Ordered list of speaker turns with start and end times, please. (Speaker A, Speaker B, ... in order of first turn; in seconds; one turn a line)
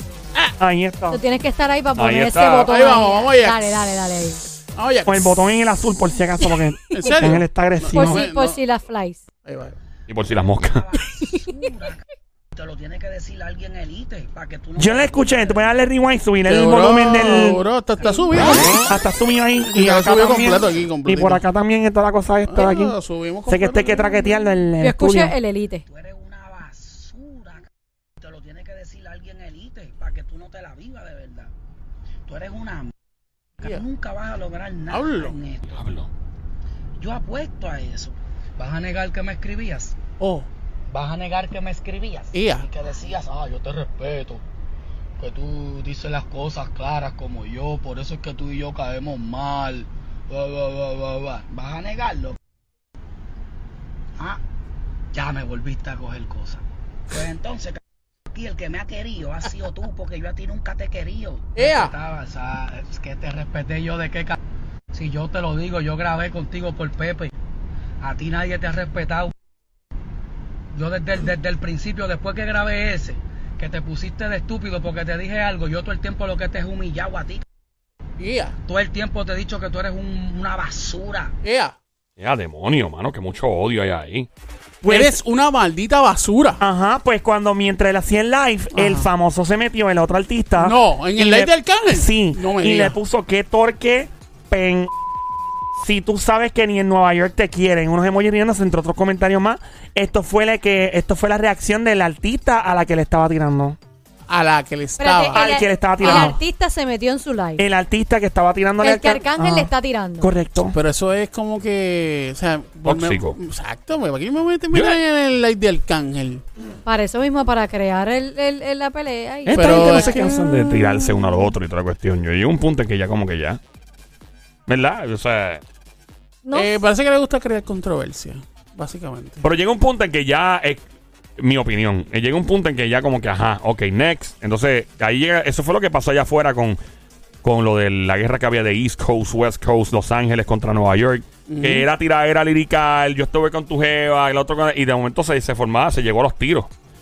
Speaker A: 0.6-1.2
Speaker B: 1.1-4.4
Speaker C: 1.9-2.7
Speaker D: 2.6-3.6
Speaker D: 4.7-5.3
Speaker A: 5.0-8.3
Speaker D: 6.9-8.6
Speaker B: 7.9-9.3
Speaker D: 9.4-9.7
Speaker C: 10.1-10.8
Speaker E: 10.6-12.0
Speaker E: 12.5-15.7
Speaker A: 14.8-17.6
Speaker D: 16.5-18.9
Speaker B: 18.0-18.7
Speaker A: 18.8-22.9
Speaker D: 19.6-21.4
Speaker D: 22.5-24.3
Speaker A: 23.5-25.3
Speaker B: 24.8-25.8
Speaker E: 25.9-31.5
Speaker E: 32.3-32.9
Speaker E: 33.6-35.8
Speaker D: 34.9-35.3
Speaker C: 35.7-36.1
Speaker E: 37.0-40.0
Speaker D: 40.2-40.5
Speaker E: 40.9-44.4
Speaker D: 42.3-42.7
Speaker E: 45.2-52.4
Speaker E: 55.1-64.4
Speaker D: 61.5-61.9
Speaker E: 64.9-67.3
Speaker E: 68.0-69.3
Speaker E: 70.7-77.4
Speaker D: 78.2-78.5
Speaker E: 78.7-81.3
Speaker D: 81.4-81.7
Speaker C: 82.2-84.3
Speaker A: 84.8-85.2
Speaker D: 84.8-86.6
Speaker A: 86.6-94.9
Speaker D: 88.7-89.1
Speaker D: 90.6-93.0
Speaker A: 95.7-103.8
Speaker D: 104.3-105.5
Speaker B: 105.0-107.6
Speaker A: 105.3-106.4
Speaker D: 106.0-106.3
Speaker A: 107.6-110.8
Speaker B: 108.8-110.3
Speaker D: 110.7-116.4
Speaker C: 112.8-113.4
Speaker C: 114.7-115.0
Speaker B: 116.8-120.9
Speaker C: 119.5-123.6
Speaker A: 119.5-120.5
Speaker D: 119.5-120.2
Speaker C: 124.7-125.6
Speaker B: 126.4-126.8
Speaker D: 126.5-129.4
Speaker C: 129.4-130.8
Speaker C: 131.4-136.8
Speaker C: 137.4-146.7
Speaker D: 141.5-141.9